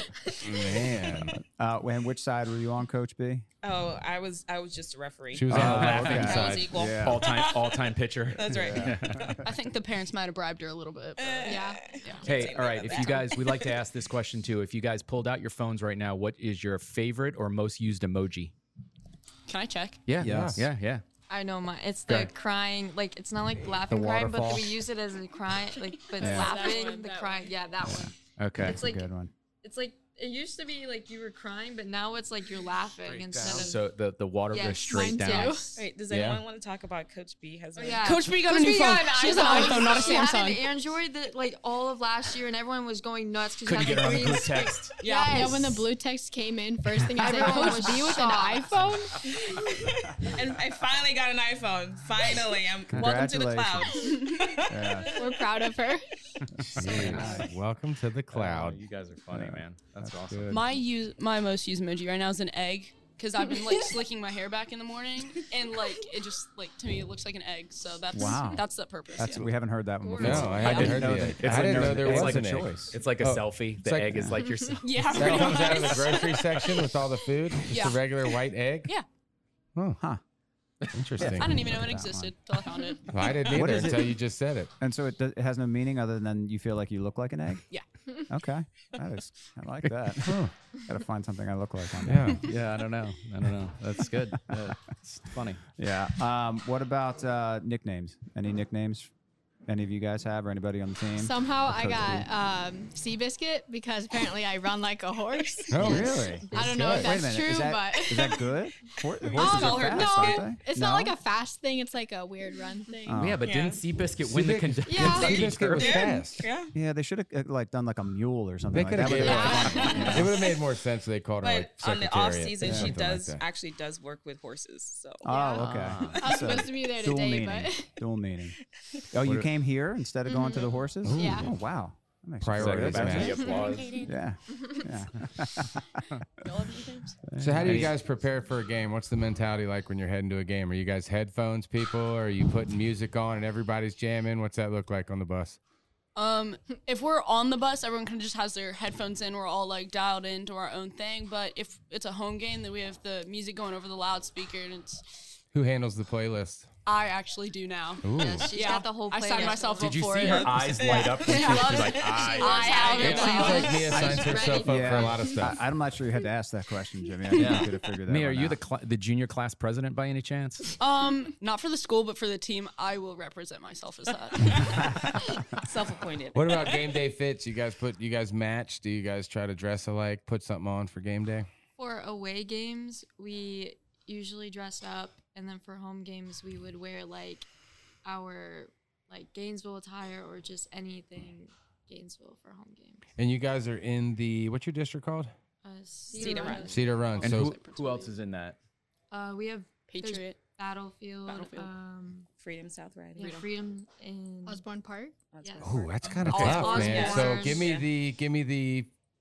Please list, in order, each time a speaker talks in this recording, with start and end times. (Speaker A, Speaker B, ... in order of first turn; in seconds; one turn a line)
Speaker A: 0.4-1.4
Speaker B: 1.1-3.5
Speaker C: 3.6-9.3
Speaker A: 5.3-6.7
Speaker B: 5.5-7.3
Speaker D: 5.5-9.3
Speaker B: 8.5-9.3
Speaker E: 9.4-12.3
Speaker C: 11.2-13.7
Speaker F: 11.5-11.8
Speaker D: 12.2-18.5
Speaker E: 19.5-20.0
Speaker D: 20.1-21.0
Speaker B: 20.2-20.6
Speaker A: 20.2-20.6
Speaker G: 21.3-29.1
Speaker B: 23.9-24.8
Speaker B: 26.2-26.6
Speaker B: 27.9-29.3
Speaker D: 28.4-28.8
Speaker G: 29.6-33.8
Speaker A: 33.1-33.6
Speaker D: 33.4-35.7
Speaker G: 34.5-35.6
Speaker F: 34.9-35.8
Speaker C: 35.7-38.4
Speaker G: 37.8-45.9
Speaker E: 38.0-40.5
Speaker F: 39.2-40.5
Speaker C: 39.6-40.2
Speaker D: 43.6-45.0
Speaker E: 45.0-45.5
Speaker F: 45.0-49.2
Speaker G: 47.1-48.7
Speaker C: 49.7-55.3
Speaker B: 52.9-54.1
Speaker B: 54.7-55.2
Speaker F: 55.1-56.0
Speaker B: 56.6-57.5
Speaker A: 56.8-58.8
Speaker D: 56.9-57.4
Speaker D: 58.3-60.7
Speaker B: 59.3-60.1
Speaker E: 60.5-69.5
Speaker B: 68.1-73.0
Speaker G: 70.1-70.5
Speaker A: 70.2-74.3
Speaker D: 70.6-76.1
Speaker E: 74.8-76.5
Speaker A: 75.2-78.9
Speaker E: 77.6-78.0
Speaker A: 80.9-81.6
Speaker B: 81.2-82.3
Speaker E: 81.4-83.1
Speaker A: 83.1-84.7
Speaker B: 83.5-84.2
Speaker B: 84.8-87.7
Speaker B: 88.3-92.4
Speaker A: 90.3-90.5
Speaker A: 92.0-92.5
Speaker D: 92.4-95.6
Speaker B: 95.8-99.1
Speaker B: 99.7-102.3
Speaker F: 101.2-108.5
Speaker A: 105.7-107.1
Speaker B: 105.8-111.2
Speaker G: 106.5-106.8
Speaker F: 109.3-113.2
Speaker C: 109.3-110.4
Speaker B: 113.1-113.4
Speaker D: 113.2-116.0
Speaker C: 113.4-113.8
Speaker A: 114.2-116.5
Speaker F: 114.9-115.3
Speaker C: 115.8-116.7
Speaker B: 116.7-120.3
Speaker A: 118.7-123.4
Speaker F: 119.2-120.2
Speaker C: 121.4-125.3
Speaker B: 122.6-123.0
Speaker B: 125.2-128.6
Speaker F: 125.3-125.6
Speaker D: 125.6-126.2
Speaker F: 126.2-127.9
Speaker B: 129.1-136.2
Speaker A: 131.1-131.5
Speaker F: 131.2-131.5
Speaker A: 132.4-133.6
Speaker D: 132.6-133.9
Speaker B: 137.3-137.9
Speaker A: 137.4-145.6
Speaker D: 137.6-137.9
Speaker E: 146.2-155.3
Speaker A: 155.5-156.7
Speaker E: 156.8-163.6
Speaker A: 158.0-158.5
Speaker G: 158.2-160.1
Speaker D: 159.7-162.8
Speaker C: 160.3-163.6
Speaker G: 162.3-165.2
Speaker A: 163.0-165.6
Speaker B: 164.6-168.6
Speaker D: 167.3-170.7
Speaker E: 170.8-174.9
Speaker B: 174.5-175.2
Speaker C: 175.6-176.9
Speaker A: 176.3-181.5
Speaker G: 181.8-187.5
Speaker G: 188.0-193.1
Speaker A: 193.2-195.3
Speaker G: 195.6-197.0
Speaker C: 196.1-196.8
Speaker E: 196.2-196.5
Speaker A: 196.7-197.6
Speaker D: 197.2-198.6
Speaker E: 197.5-198.1
Speaker G: 199.1-202.3
Speaker E: 199.9-200.4
Speaker C: 201.3-201.6
Speaker E: 201.3-201.7
Speaker C: 202.4-203.4
Speaker G: 203.2-204.6
Speaker F: 204.5-205.2
Speaker C: 205.3-207.9
Speaker G: 205.4-205.7
Speaker A: 205.6-208.9
Speaker G: 206.3-207.7